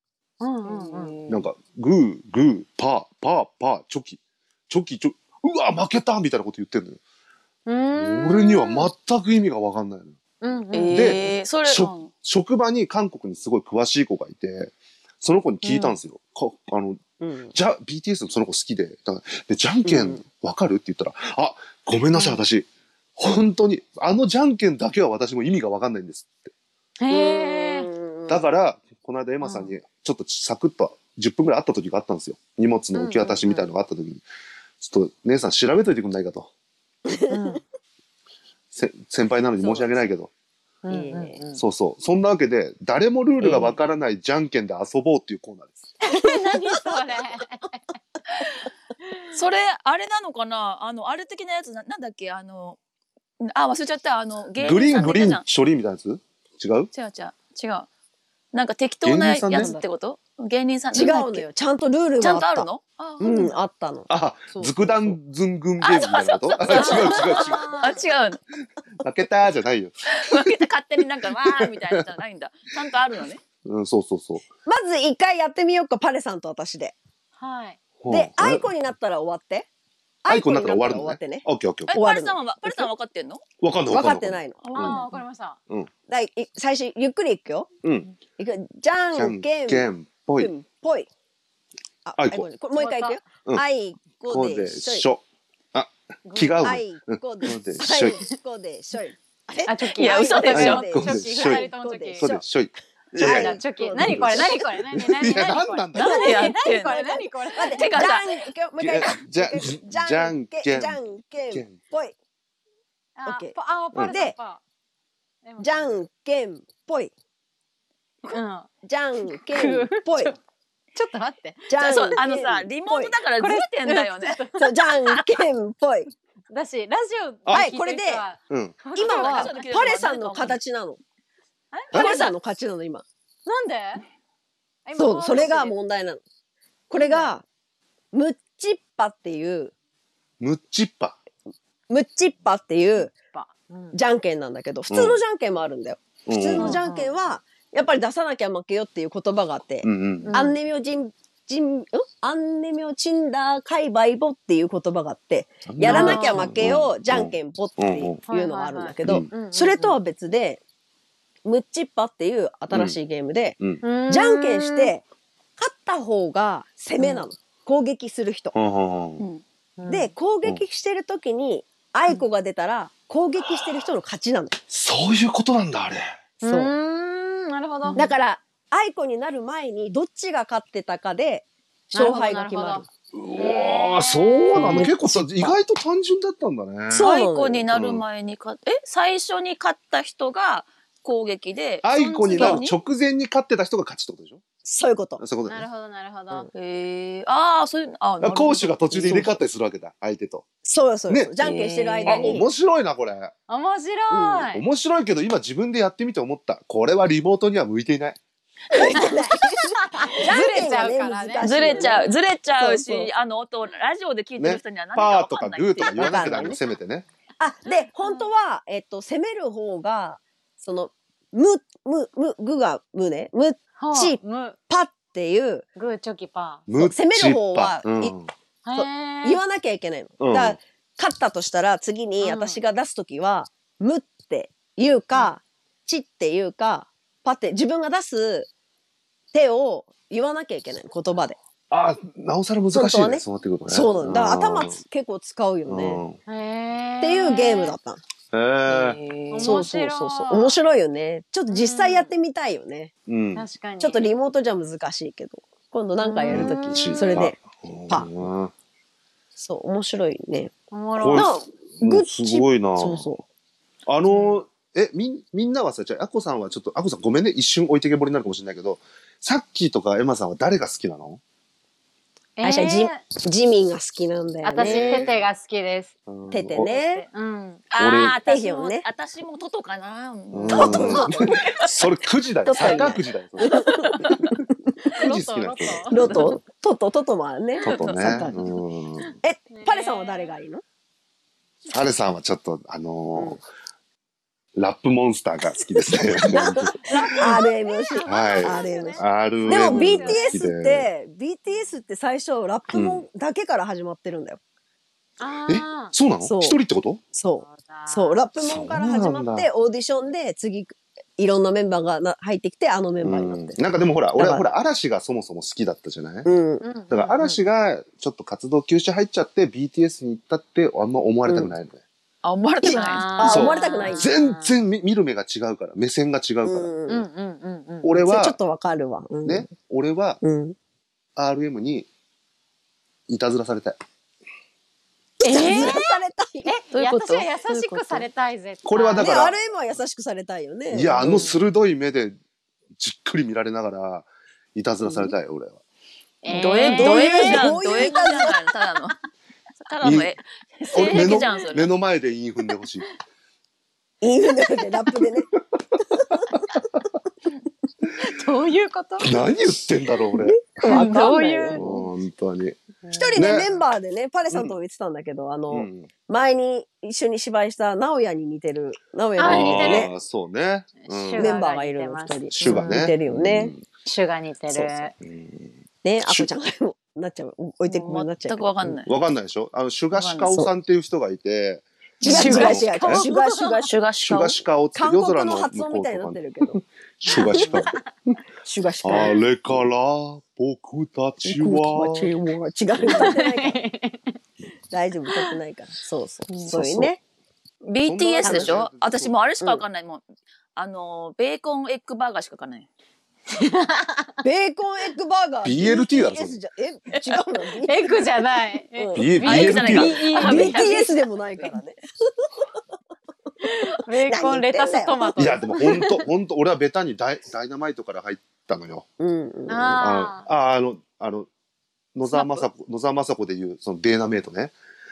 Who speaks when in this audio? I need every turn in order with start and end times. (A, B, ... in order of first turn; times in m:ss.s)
0:00.4-0:01.1 A
0:00.6-0:01.5 B
0:01.3-0:07.0 C
0:07.6-0:08.9 A
0:07.9-0:10.2 C
0:10.4-0:11.2 A
0:10.7-0:12.1 B
0:10.9-0:17.0 C
0:15.6-0:16.0 A
0:17.2-0:17.5 D
0:17.5-0:22.7 C
0:19.8-0:20.2 D
0:22.1-0:22.4 A
0:23.2-0:26.5 C
0:27.0-0:27.9 A
0:27.1-0:28.4 D
0:28.3-0:34.2 C
0:29.4-0:29.7 A
0:32.9-0:33.7 A
0:34.8-0:36.5 C
0:37.1-0:37.4 D
0:37.3-0:37.6 A
0:38.7-0:40.3 C
0:39.6-0:40.1 D
0:40.8-0:41.6 A
0:40.9-0:41.4 D
0:41.6-0:45.8 C
0:43.4-0:43.8 A
0:46.0-0:47.8 A
0:49.3-0:52.8 B
0:53.4-0:55.4 B
0:54.6-0:56.9 C
0:56.9-0:57.9 B
0:58.5-1:01.4 B
0:59.0-0:59.7 C
0:59.5-0:59.8 D
1:00.9-1:02.7 D
1:02.2-1:03.6 B
1:03.2-1:05.2 D
1:04.1-1:07.8 C
1:05.8-1:08.4 B
1:07.0-1:08.0 A
1:09.0-1:10.1 C
1:10.1-1:13.4 B
1:11.6-1:11.9 C
1:13.6-1:14.4 C
1:14.6-1:16.9 D
1:17.4-1:17.8 A
1:18.0-1:18.7 C
1:18.1-1:19.7 D
1:20.2-1:22.9 D
1:20.3-1:22.0 C
1:21.9-1:23.4 B
1:23.6-1:25.0 C
1:23.9-1:24.6 D
1:24.6-1:25.1 B
1:24.7-1:25.6 A
1:26.1-1:27.7 D
1:27.8-1:28.1 C
1:28.4-1:29.9 D
1:29.1-1:30.5 C
1:30.4-1:31.1 D
1:32.0-1:35.1 D
1:32.2-1:32.5 C
1:32.7-1:33.2 A
1:34.3-1:35.2 C
1:35.7-1:38.2 C
1:36.2-1:36.7 A
1:36.6-1:42.6 D
1:39.7-1:42.3 A
1:40.0-1:40.8 B
1:40.5-1:41.7 C
1:42.2-1:46.3 C
1:43.2-1:44.6 D
1:43.2-1:47.9 A
1:45.9-1:48.4 B
1:46.4-1:52.1 D
1:48.8-1:51.8 C
1:53.2-1:54.6 A
1:53.2-1:54.4 D
1:55.4-1:55.9 A
1:55.6-1:57.1 D
1:58.3-1:58.7 A
1:58.8-2:00.4 D
1:59.2-2:00.4 A
2:00.9-2:02.0 A
2:01.7-2:03.2 D
2:01.8-2:04.5 B
2:03.4-2:04.7 A
2:04.6-2:06.1 D
2:06.5-2:10.0 A
2:07.4-2:07.7 C
2:07.5-2:08.2 D
2:08.5-2:08.8 C
2:08.9-2:10.6 B
2:08.9-2:11.0 D
2:11.7-2:12.3 A
2:11.9-2:13.0 D
2:13.4-2:14.0 A
2:14.8-2:15.8 A
2:15.0-2:16.2 D
2:16.9-2:17.4 D
2:16.9-2:17.3 A
2:18.1-2:19.7 D
2:20.4-2:21.2 C
2:21.9-2:23.1 D
2:23.0-2:24.0 A
2:23.9-2:40.6 D
2:24.9-2:25.2 C
2:26.2-2:26.8 C
2:26.6-2:27.1 A
2:29.8-2:30.3 C
2:30.2-2:30.6 A
2:35.6-2:38.2 C
2:35.8-2:36.5 A
2:38.3-2:40.0 A
2:39.0-2:39.3 C
2:41.4-2:45.0 D
2:42.7-2:43.0 C
2:43.8-2:44.9 A
2:45.6-2:48.5 D
2:47.0-2:47.2 A
2:48.5-2:49.2 C
2:49.8-2:50.1 A
2:49.9-2:54.6 D
2:53.4-2:53.8 C
2:54.7-2:56.1 C
2:56.4-2:58.1 A
2:56.4-2:56.7 D
2:58.0-3:02.9 D
3:01.9-3:02.8 A
3:03.1-3:07.1 C
3:03.4-3:04.8 A
3:04.5-3:05.6 D
3:06.9-3:07.6 D
3:07.0-3:12.7 B
3:07.7-3:08.0 C
3:11.8-3:14.4 C
3:12.3-3:12.6 D
3:14.6-3:15.2 D
3:15.2-3:15.7 C
3:15.5-3:16.5 A
3:16.5-3:19.3 B
3:18.2-3:20.4 C
3:20.6-3:22.5 D
3:21.1-3:23.3 C
3:21.5-3:22.2 A
3:23.5-3:24.6 A
3:24.1-3:24.5 D
3:24.5-3:28.2 C
3:28.7-3:33.2 D
3:29.0-3:29.3 A
3:30.2-3:32.1 A
3:31.4-3:36.4 B
3:34.4-3:37.0 C
3:35.9-3:36.6 D
3:37.4-3:45.6 D
3:43.8-3:44.6 A
3:45.8-3:46.6 A
3:46.7-3:48.3 C
3:46.8-3:48.1 D
3:48.6-3:49.4 A
3:48.7-3:58.5 D
3:50.2-3:50.6 C
3:52.2-3:52.6 A
3:59.3-4:01.4 D
4:01.7-4:04.8 C
4:02.7-4:06.0 D
4:05.7-4:06.2 C
4:06.2-4:07.7 A
4:07.0-4:08.0 D
4:08.3-4:09.0 C
4:08.7-4:09.5 B
4:09.3-4:10.6 A
4:09.4-4:12.9 D
4:11.5-4:12.1 A
4:13.0-4:13.5 C
4:13.3-4:14.1 A
4:13.8-4:18.1 D
4:16.0-4:17.3 A
4:16.3-4:18.5 C
4:19.4-4:20.5 D
4:20.7-4:21.4 A
4:21.0-4:23.1 C
4:21.1-4:23.2 D
4:23.9-4:31.2 C
4:24.1-4:24.4 A
4:32.4-4:33.0 A
4:32.4-4:35.1 D
4:34.4-4:35.9 A
4:34.6-4:35.2 C
4:36.1-4:36.7 C
4:36.3-4:37.0 D
4:36.6-4:37.6 A
4:37.7-4:41.5 B
4:37.8-4:38.2 C
4:38.2-4:38.9 D
4:40.3-4:43.7 C
4:40.5-4:41.4 D
4:42.4-4:43.9 D
4:43.4-4:44.3 B
4:45.0-4:46.3 A
4:45.0-4:46.1 C
4:45.9-4:47.7 D
4:46.1-4:46.4 B
4:47.6-4:48.6 B
4:47.6-4:49.1 C
4:49.2-4:50.6 D
4:49.5-4:50.3 A
4:51.7-4:53.4 C
4:54.6-4:57.4 C
4:55.7-5:04.4 D
4:56.7-5:00.4 A
4:58.0-5:00.9 C
5:02.7-5:03.0 C
5:05.2-5:05.9 A
5:05.4-5:07.0 C
5:06.2-5:06.6 D
5:07.1-5:13.6 D
5:07.4-5:08.2 A
5:08.4-5:09.5 C
5:13.0-5:16.3 C
5:14.1-5:14.5 D
5:16.2-5:16.7 D
5:16.6-5:17.4 A
5:16.9-5:21.8 C
5:21.3-5:21.5 D
5:22.2-5:23.1 B
5:22.6-5:24.1 D
5:22.6-5:24.5 A
5:23.2-5:26.7 C
5:26.4-5:27.0 D
5:26.9-5:27.9 A
5:27.8-5:28.4 C
5:27.9-5:29.5 D
5:29.2-5:30.2 C
5:30.2-5:30.5 D
5:31.2-5:31.9 C
5:33.1-5:33.8 C
5:35.2-5:39.1 A
5:35.2-5:36.5 D
5:36.7-5:38.1 B
5:38.6-5:39.4 C
5:39.0-5:41.3 D
5:40.7-5:42.2 C
5:41.0-5:41.4 A
5:42.8-5:45.6 C
5:44.8-5:45.1 D
5:46.2-5:48.0 A
5:46.2-5:49.0 B
5:46.6-5:48.4 D
5:49.6-5:51.7 B
5:49.8-5:50.1 C
5:50.7-5:51.5 A
5:50.7-5:52.8 C
5:54.0-5:55.3 D
5:58.0-5:59.2 A
5:59.0-6:00.4 C
6:00.2-6:01.7 D
6:00.6-6:01.8 A
6:00.7-6:01.0 B
6:01.5-6:02.6 C
6:02.8-6:03.1 A
6:02.9-6:09.9 D
6:03.1-6:03.5 C
6:05.5-6:05.9 C
6:09.2-6:09.9 A
6:09.2-6:11.4 C
6:10.8-6:12.9 A
6:11.2-6:13.5 D
6:12.4-6:13.6 C
6:13.8-6:14.9 A
6:14.5-6:15.5 C
6:15.8-6:18.8 D
6:16.0-6:16.3 C
6:17.7-6:18.9 B
6:18.8-6:23.1 C
6:19.9-6:20.4 B
6:20.3-6:20.5 D
6:22.0-6:24.4 B
6:22.0-6:23.7 D
6:24.0-6:28.2 C
6:24.7-6:27.5 D
6:27.2-6:27.6 A
6:28.4-6:29.7 D
6:28.8-6:32.1 C
6:31.2-6:33.6 D
6:32.8-6:33.2 C
6:32.9-6:34.1 A
6:34.7-6:37.0 D
6:36.5-6:36.9 C
6:37.6-6:40.0 B
6:37.8-6:39.2 C
6:38.2-6:38.6 D
6:40.6-6:42.7 B
6:43.3-6:44.0 A
6:44.2-6:49.2 D
6:45.4-6:46.4 C
6:47.6-6:50.7 A
6:48.9-6:50.3 C
6:49.2-6:51.6 B
6:50.1-6:52.3 D
6:53.4-6:55.7 A
6:53.9-6:56.0 D
6:55.2-6:58.8 C
6:59.0-6:59.8 D
6:59.5-7:00.2 A
6:59.8-7:01.3 C
7:01.9-7:04.5 C
7:02.1-7:02.4 B